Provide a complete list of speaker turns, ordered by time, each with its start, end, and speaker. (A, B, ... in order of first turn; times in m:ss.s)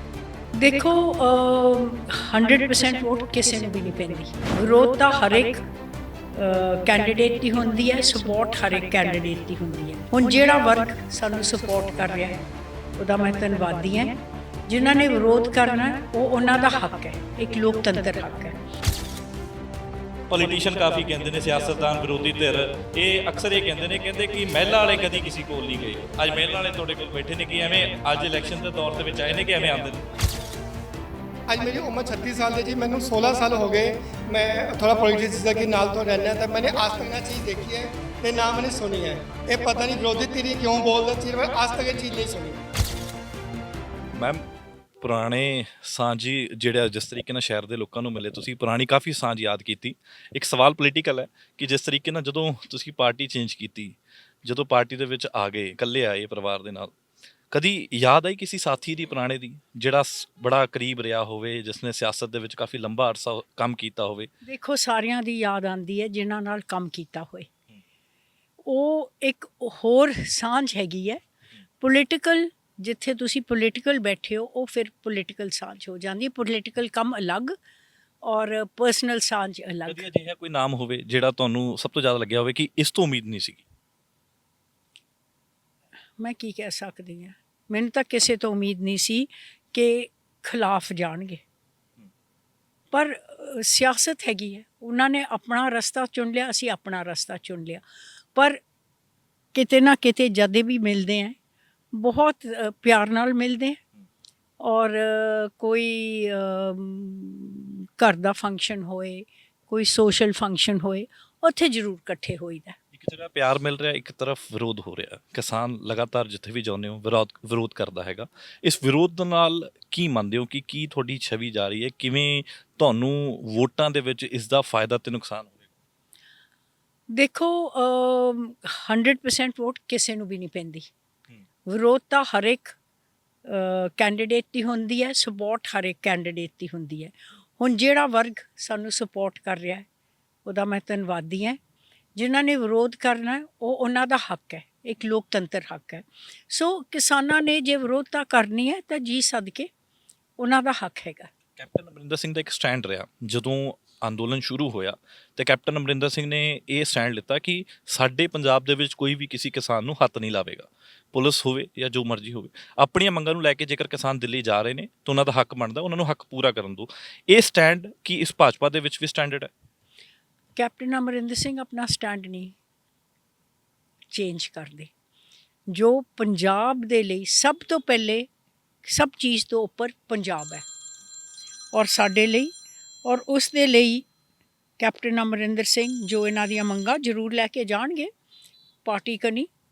0:00.5-0:05.6 A
0:06.3-0:12.4 A
0:13.0-0:18.6 A
0:20.3-0:30.0 B
0:31.5-0:42.6 C
0:44.1-0:44.4 B
0:45.0-0:56.9 B
0:57.5-1:04.3 B
1:04.4-1:07.5 A
1:08.6-1:11.2 A
1:11.8-1:17.5 A
1:18.2-1:20.0 A
1:19.9-1:23.6 B
1:26.2-1:31.4 A
1:32.9-1:37.8 A
1:38.3-1:38.6 A
1:39.5-1:41.4 A
1:41.9-1:43.8 A
1:44.6-1:52.8 A
1:52.9-2:05.7 B
2:07.1-2:10.9 A
2:11.7-2:12.8 A
2:13.4-2:19.8 A
2:20.4-2:21.6 A
2:22.1-2:29.7 A
2:30.4-2:31.3 A
2:31.6-2:49.5 B
2:50.6-2:52.5 A
2:54.1-2:54.9 A
2:55.7-2:58.3 A
2:58.8-3:00.6 A
3:01.7-3:02.5 A
3:03.0-3:04.0 A
3:04.8-3:08.1 A
3:08.8-3:09.5 A